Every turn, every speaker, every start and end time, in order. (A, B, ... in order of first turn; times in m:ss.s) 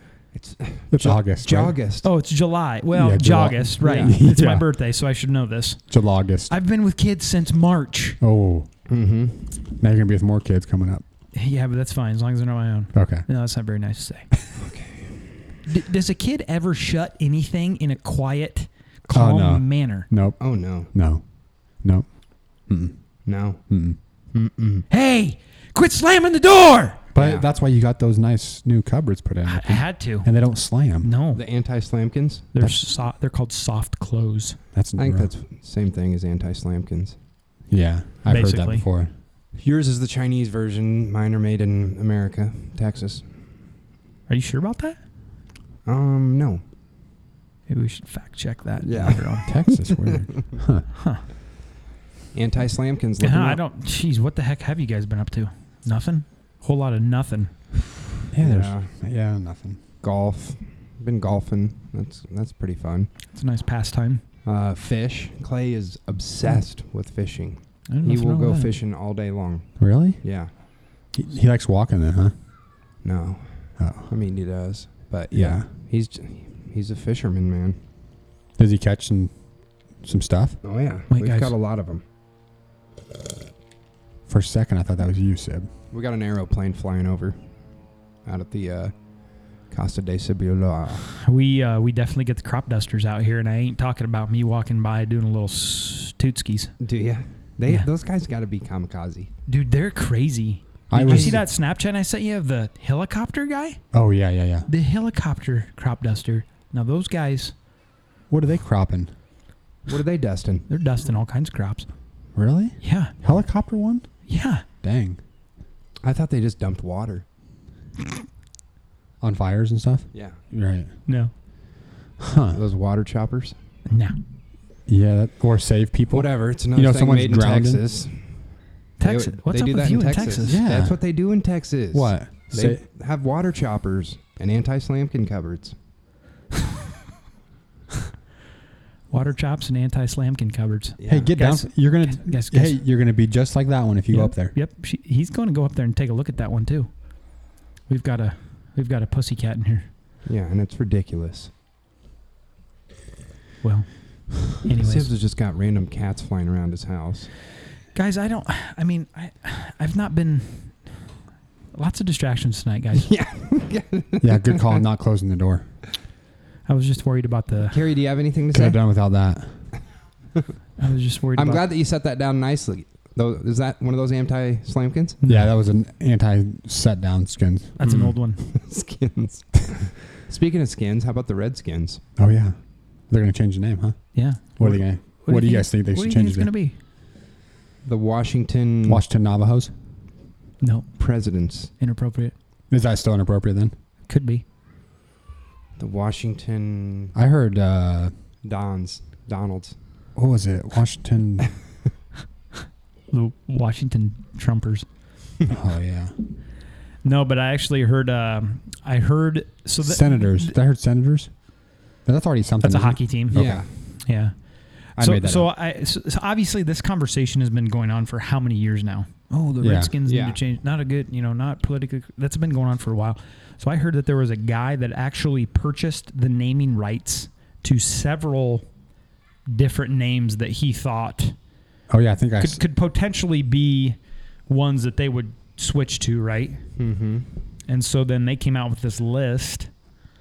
0:00.3-0:02.1 A
0:00.9-0:01.8 B
0:02.0-0:05.8 C
0:02.9-0:04.6 B
0:03.8-0:04.2 A
0:05.9-0:06.5 B
0:06.5-0:08.2 C
0:08.2-0:08.7 B
0:08.9-0:09.5 A
0:09.8-0:11.0 B
0:11.3-0:14.3 C
0:12.9-0:13.2 B
0:14.6-0:15.4 A
0:15.7-0:20.1 C
0:19.1-0:23.1 B
0:20.4-0:20.9 A
0:23.2-0:24.8 A
0:23.7-0:24.0 B
0:24.9-0:27.0 C
0:27.1-0:31.1 B
0:27.2-0:27.4 A
0:29.5-0:30.3 C
0:31.0-0:31.4 C
0:31.3-0:32.5 A
0:32.5-0:34.6 C
0:32.6-0:32.8 B
0:34.7-0:35.3 B
0:35.0-0:37.2 A
0:37.7-0:39.1 B
0:38.3-0:38.8 C
0:39.5-0:43.3 A
0:44.3-0:45.0 C
0:45.8-0:46.6 A
0:47.7-0:49.5 C
0:48.8-0:50.5 A
0:49.4-0:50.8 B
0:50.9-0:51.2 C
0:52.3-0:53.6 A
0:53.2-0:57.5 C
0:58.3-0:59.8 B
0:58.4-0:58.9 A
1:00.0-1:03.1 A
1:03.3-1:04.2 C
1:04.4-1:10.5 A
1:07.9-1:08.7 C
1:09.8-1:12.3 B
1:13.0-1:17.8 A
1:13.8-1:14.1 B
1:15.3-1:15.7 B
1:18.6-1:19.3 B
1:20.0-1:20.6 B
1:20.6-1:22.0 A
1:21.1-1:21.5 C
1:24.3-1:25.7 B
1:25.9-1:27.6 A
1:28.2-1:31.1 A
1:31.2-1:36.7 C
1:36.8-1:39.3 A
1:39.5-1:43.8 C
1:40.9-1:41.4 B
1:41.0-1:41.4 A
1:43.9-1:44.7 B
1:44.6-1:47.5 C
1:48.3-1:49.1 B
1:49.9-1:50.7 A
1:50.7-1:51.9 C
1:52.3-1:54.1 B
1:52.8-1:53.1 C
1:54.3-1:54.6 C
1:54.8-1:55.2 B
1:56.0-1:57.2 A
1:59.2-2:00.9 B
2:00.1-2:00.4 A
2:01.0-2:01.3 C
2:02.2-2:02.6 B
2:02.5-2:03.5 A
2:03.9-2:04.2 C
2:04.9-2:07.8 B
2:06.1-2:08.4 A
2:09.0-2:10.6 C
2:09.0-2:15.7 A
2:10.4-2:11.0 B
2:11.9-2:12.8 B
2:19.1-2:22.8 C
2:21.0-2:21.3 A
2:21.0-2:24.6 B
2:24.1-2:29.9 C
2:30.2-2:31.5 A
2:33.6-2:35.1 C
2:34.8-2:37.3 A
2:37.9-2:41.1 C
2:41.7-2:43.1 C
2:43.0-2:44.8 A
2:44.2-2:45.6 B
2:46.7-2:47.8 C
2:47.6-2:48.8 A
2:48.5-2:49.6 B
2:50.8-2:51.7 C
2:51.3-2:55.2 A
2:55.2-2:55.5 C
2:55.2-2:58.1 B
2:57.8-2:58.4 C
2:57.8-3:02.0 A
3:02.2-3:06.5 B
3:04.1-3:06.8 C
3:07.8-3:09.0 A
3:08.8-3:09.7 B
3:10.6-3:11.0 C
3:11.0-3:11.7 A
3:11.8-3:12.3 C
3:12.7-3:13.7 B
3:14.1-3:14.4 C
3:15.8-3:17.1 A
3:17.1-3:18.1 B
3:18.4-3:19.7 A
3:20.2-3:21.5 B
3:23.1-3:24.9 C
3:25.5-3:26.1 B
3:27.0-3:30.5 C
3:29.8-3:33.7 B
3:32.6-3:48.6 C
3:33.3-3:33.7 A
3:35.0-3:35.5 B
3:39.6-3:39.9 B
3:40.0-3:40.4 A
3:49.5-3:51.4 C
3:51.9-3:52.6 B
3:52.4-3:56.6 C
3:56.8-3:57.3 A
3:57.7-3:59.7 C